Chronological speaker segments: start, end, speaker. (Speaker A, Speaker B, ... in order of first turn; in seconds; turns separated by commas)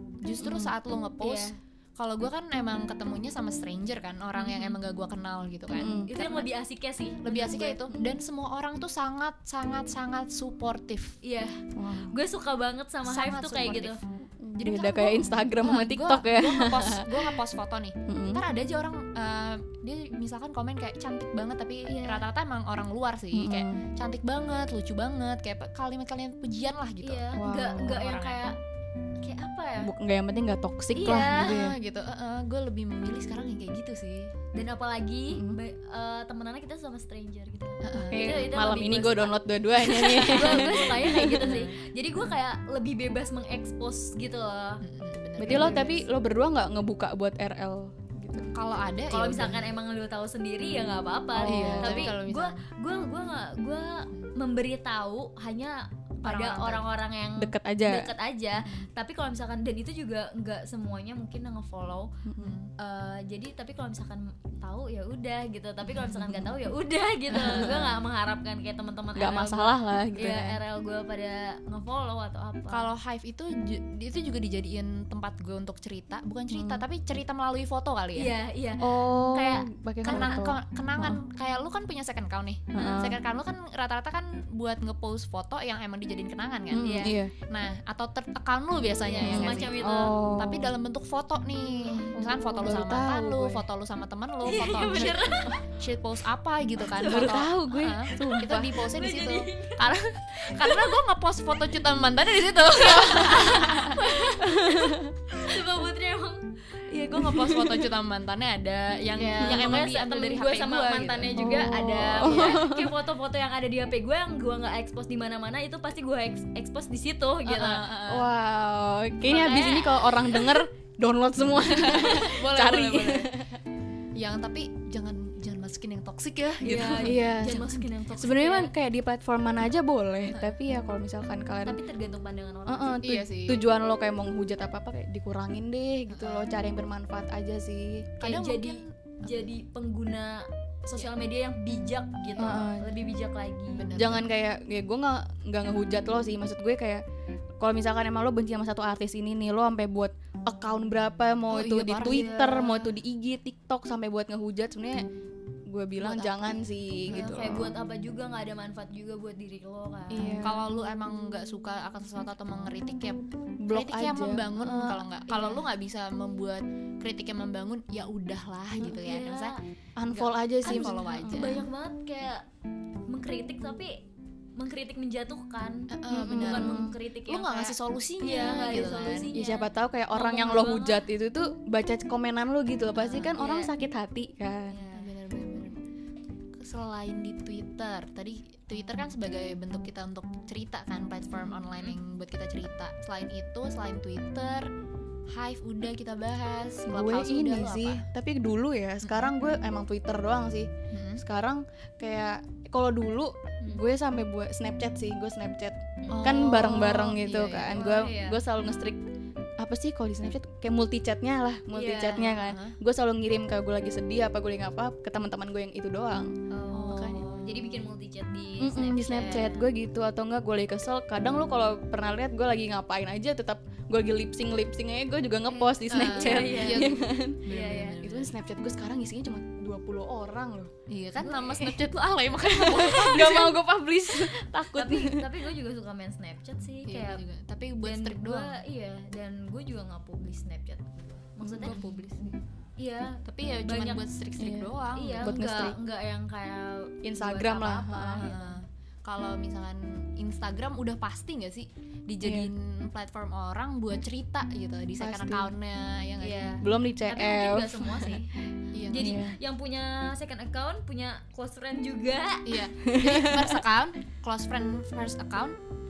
Speaker A: 0.2-6.5, Speaker B: 0.4-0.7, Speaker C: 1.2-1.5, Speaker C: 4.4-4.8, Speaker C: 5.8-7.9, Speaker B: 5.8-6.1, Speaker A: 7.2-11.2, Speaker C: 11.2-14.0, Speaker B: 11.8-12.1, Speaker A: 13.1-14.0, Speaker B: 14.3-17.3, Speaker A: 14.6-28.4, Speaker B: 18.1-18.4, Speaker C: 21.9-22.2, Speaker B: 23.3-23.8, Speaker C: 27.0-28.6, Speaker B: 27.4-28.0, Speaker C: 29.2-29.9, Speaker B: 29.8-31.8, Speaker C: 30.9-31.6, Speaker A: 31.1-34.3, Speaker C: 34.5-44.8, Speaker B: 35.3-35.6, Speaker A: 37.8-38.4, Speaker B: 38.1-41.7, Speaker A: 44.8-46.0, Speaker B: 45.4-48.5, Speaker C: 45.4-46.0, Speaker A: 48.5-49.7, Speaker C: 49.1-62.1, Speaker B: 51.3-52.1, Speaker A: 51.4-52.6, Speaker A: 56.2-56.9, Speaker B: 57.4-58.1, Speaker B: 62.2-62.5, Speaker A: 62.4-62.7, Speaker C: 62.8-72.9, Speaker A: 65.9-66.3, Speaker A: 67.3-68.0, Speaker B: 69.2-70.6, Speaker A: 72.7-78.3, Speaker B: 76.5-76.8, Speaker C: 78.2-80.5, Speaker B: 78.8-81.2, Speaker A: 80.0-89.8, Speaker B: 82.7-83.2, Speaker B: 86.7-87.3, Speaker C: 86.8-87.2, Speaker C: 89.0-90.2, Speaker B: 89.2-90.7, Speaker A: 90.4-104.0, Speaker B: 91.9-93.6, Speaker C: 94.4-95.7, Speaker C: 96.8-97.5, Speaker B: 97.0-98.8, Speaker C: 98.1-100.9, Speaker C: 102.8-107.8, Speaker B: 104.2-105.1, Speaker A: 107.1-111.3, Speaker B: 107.2-107.8, Speaker C: 109.1-117.8, Speaker B: 111.3-113.0, Speaker A: 117.4-118.3, Speaker B: 118.1-123.5, Speaker C: 119.2-120.6, Speaker A: 121.8-123.3, Speaker C: 121.8-122.3, Speaker A: 124.1-127.5, Speaker C: 126.6-128.7, Speaker B: 126.6-131.8, Speaker A: 130.3-130.5, Speaker C: 131.6-133.0, Speaker B: 132.7-138.1, Speaker A: 133.0-133.7, Speaker A: 136.1-136.5, Speaker A: 138.2-139.5, Speaker C: 138.2-143.9, Speaker B: 142.4-142.9, Speaker A: 143.7-144.3, Speaker B: 143.9-147.0, Speaker B: 147.6-155.0, Speaker A: 151.5-152.8, Speaker C: 152.0-152.8, Speaker B: 155.7-157.7, Speaker A: 156.0-157.7, Speaker C: 157.1-160.5, Speaker B: 160.1-160.6, Speaker A: 160.4-169.6, Speaker B: 163.6-165.0, Speaker C: 165.3-165.7, Speaker C: 168.8-169.6, Speaker B: 170.0-171.6, Speaker A: 170.1-171.7, Speaker C: 170.6-172.4, Speaker C: 173.1-174.0, Speaker C: 174.6-181.1, Speaker A: 175.9-179.3, Speaker B: 176.1-176.9, Speaker B: 179.3-184.8, Speaker C: 183.0-183.7, Speaker C: 184.7-185.1, Speaker A: 184.9-185.8, Speaker A: 186.6-194.7, Speaker C: 191.3-192.0, Speaker A: 195.3-198.0, Speaker B: 196.8-209.0, Speaker A: 199.0-199.3, Speaker A: 200.9-201.2, Speaker C: 206.0-206.4, Speaker A: 206.1-207.9, Speaker C: 207.7-208.4, Speaker B: 209.6-216.3, Speaker C: 211.7-212.4, Speaker A: 212.4-212.8, Speaker C: 216.5-219.7, Speaker A: 216.7-217.8, Speaker B: 216.8-217.3, Speaker B: 218.6-227.4, Speaker C: 225.4-228.0, Speaker A: 225.9-228.3, Speaker B: 228.0-230.7, Speaker A: 230.9-233.6, Speaker B: 231.4-231.8, Speaker B: 232.4-235.3, Speaker C: 234.7-237.2, Speaker A: 236.8-238.6, Speaker C: 237.8-244.0, Speaker B: 241.4-242.3, Speaker A: 241.7-242.0, Speaker A: 243.2-245.3, Speaker B: 244.4-245.8, Speaker C: 244.9-248.6, Speaker B: 247.0-248.2, Speaker A: 248.2-256.6, Speaker B: 252.2-252.5, Speaker B: 255.0-255.5, Speaker C: 256.2-258.3, Speaker B: 256.6-258.2, Speaker A: 258.7-259.2, Speaker C: 258.9-262.6, Speaker B: 258.9-259.4, Speaker A: 262.4-265.6, Speaker B: 262.8-263.6